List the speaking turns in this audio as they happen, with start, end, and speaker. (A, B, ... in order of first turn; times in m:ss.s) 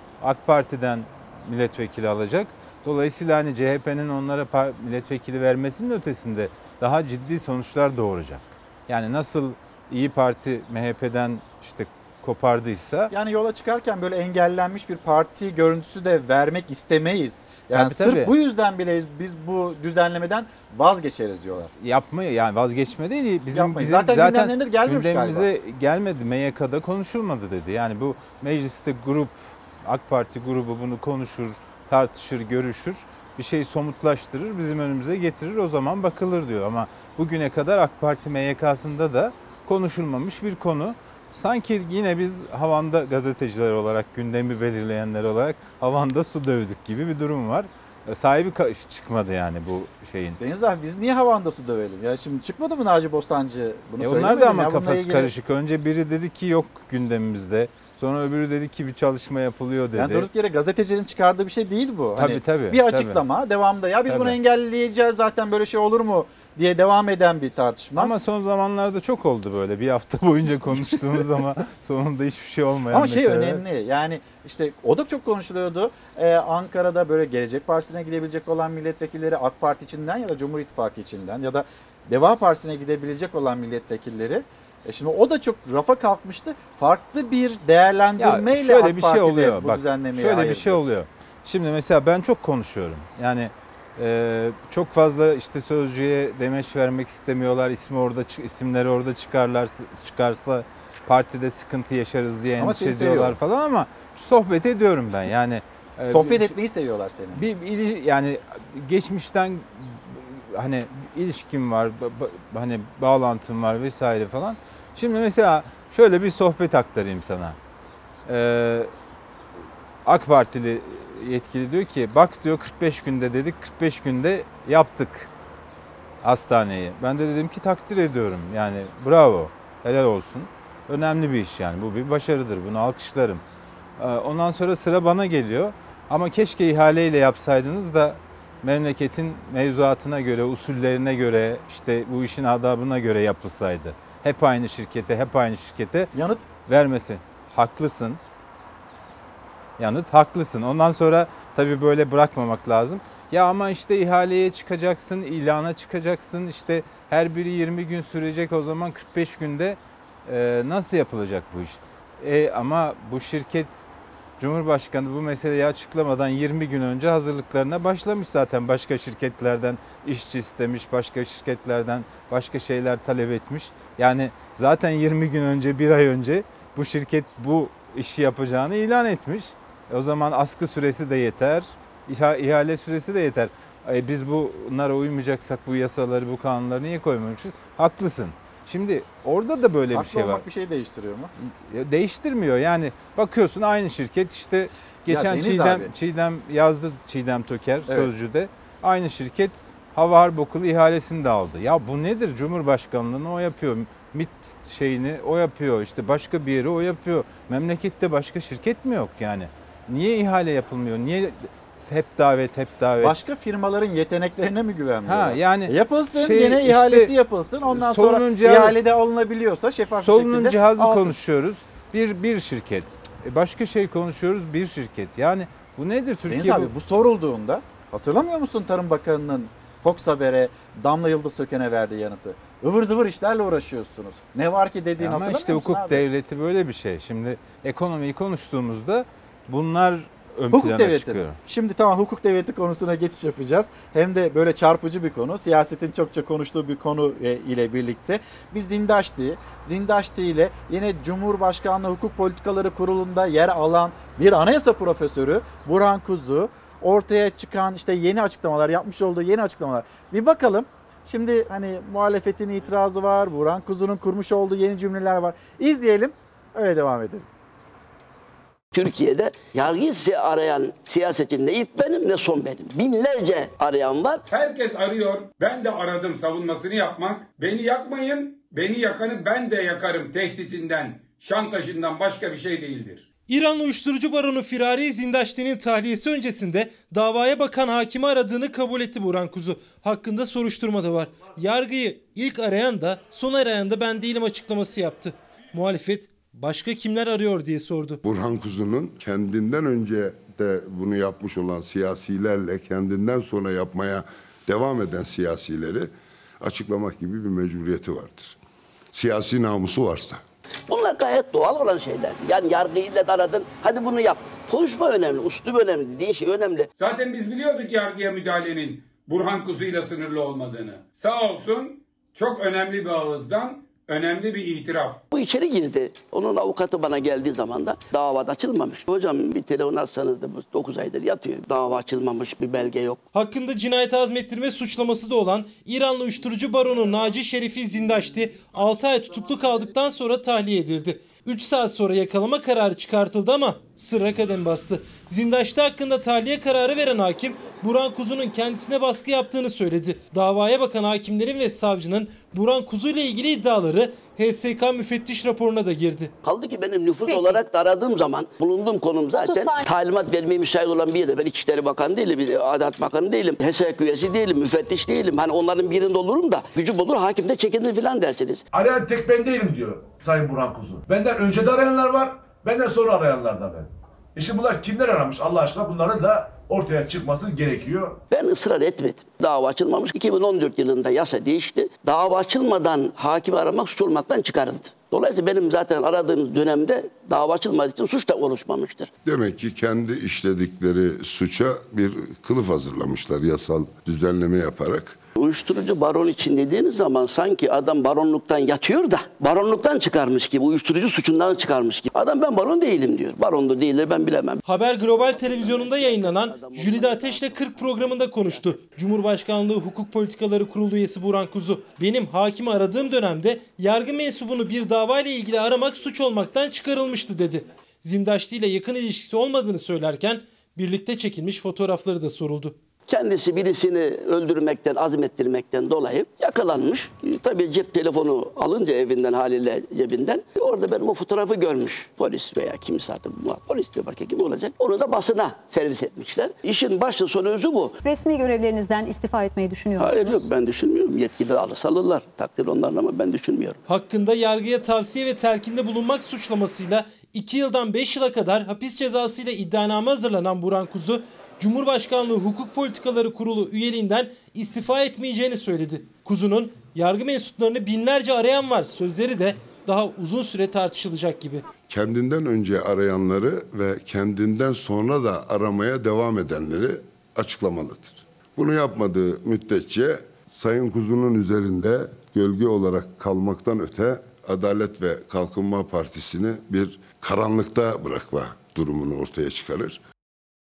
0:00.2-0:13.1 A
0:13.1-0:21.7 B
0:17.7-0:18.3 A
0:21.8-0:50.4 A
0:23.5-0:25.5 B
0:50.4-0:55.3 B
0:54.0-1:00.3 A
0:59.9-1:08.1 B
1:02.2-1:03.2 A
1:04.1-1:04.4 A
1:08.0-1:13.6 A
1:12.9-1:30.8 B
1:28.2-1:46.5 A
1:42.6-1:43.4 B
1:46.1-1:47.4 B
1:47.4-1:57.6 A
1:58.3-1:58.9 A
2:00.0-2:05.3 A
2:06.2-2:13.4 A
2:14.0-2:26.1 A
2:26.1-2:26.4 B
2:26.7-2:28.2 A
2:29.8-2:43.8 A
2:44.4-3:10.4 A
3:09.9-3:11.3 B
3:11.4-3:33.2 A
3:15.1-3:15.9 B
3:17.9-3:18.1 B
3:33.0-3:41.2 B
3:35.1-3:37.1 A
3:37.7-3:38.8 A
3:40.0-3:46.7 A
3:46.3-3:56.0 B
3:55.0-4:01.4 A
4:00.5-4:27.3 B
4:28.7-4:34.2 C
4:34.3-4:43.1 D
4:43.3-4:58.0 E
4:58.0-5:08.4 F
5:08.9-5:10.2 F
5:10.7-5:16.7 C
5:16.8-5:25.0 D
5:25.1-5:33.0 C
5:33.1-5:56.1 E
5:56.2-6:08.4 C
5:57.0-5:57.4 G
5:59.2-5:59.7 G
6:08.5-6:18.0 H
6:18.1-6:28.9 C
6:29.0-6:35.0 F
6:35.2-6:44.4 C
6:44.4-7:02.6 E
6:45.0-6:47.4 C
7:02.9-7:17.8 C
7:17.8-7:20.3 G
7:19.8-7:23.6 C
7:23.7-7:41.4 E
7:41.7-7:59.8 F